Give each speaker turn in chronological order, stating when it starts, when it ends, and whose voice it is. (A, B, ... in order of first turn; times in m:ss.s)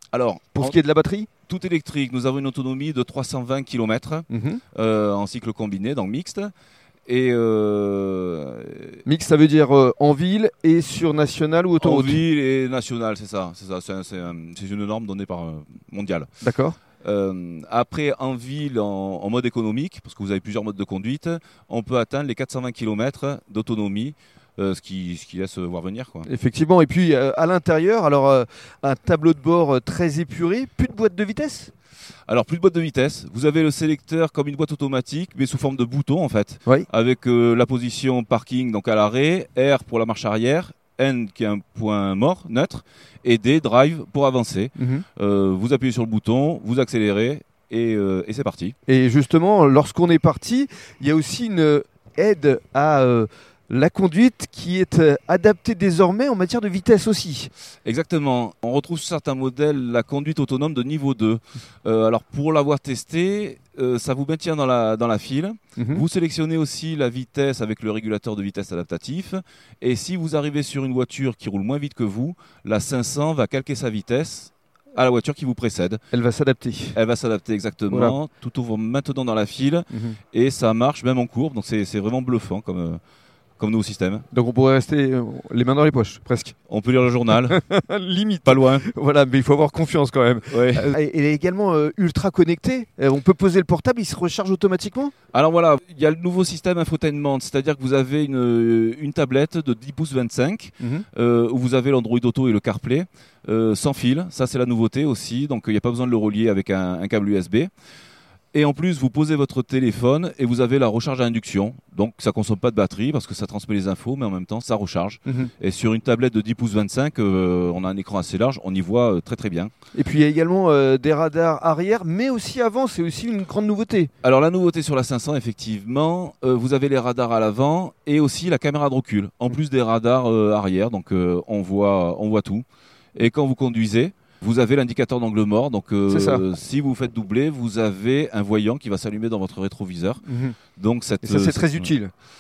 0:00.1-0:00.8 A
0:00.6-0:01.3 B
0:01.5-0:06.5 A
0:04.3-0:04.6 B
0:07.1-0:09.0 A
0:09.1-0:12.2 B
0:11.8-0:16.3 A
0:16.4-0:16.8 B
0:17.0-0:26.3 A
0:26.2-0:31.7 B
0:32.3-0:48.8 A
0:44.8-0:45.0 B
0:48.9-0:57.5 B
0:57.8-1:16.0 A
1:05.8-1:06.0 B
1:16.1-1:17.0 B
1:16.9-1:23.0 A
1:17.9-1:18.2 B
1:19.9-1:20.2 B
1:23.6-1:24.3 A
1:24.3-1:26.6 B
1:26.7-1:27.6 A
1:27.3-1:35.1 B
1:28.4-1:28.9 A
1:30.5-1:30.9 A
1:35.3-1:47.7 A
1:48.5-1:59.7 A
2:00.0-2:04.1 B
2:04.2-2:20.2 A
2:16.1-2:16.4 B
2:20.3-2:20.6 B
2:20.8-2:21.9 A
2:21.2-2:22.1 B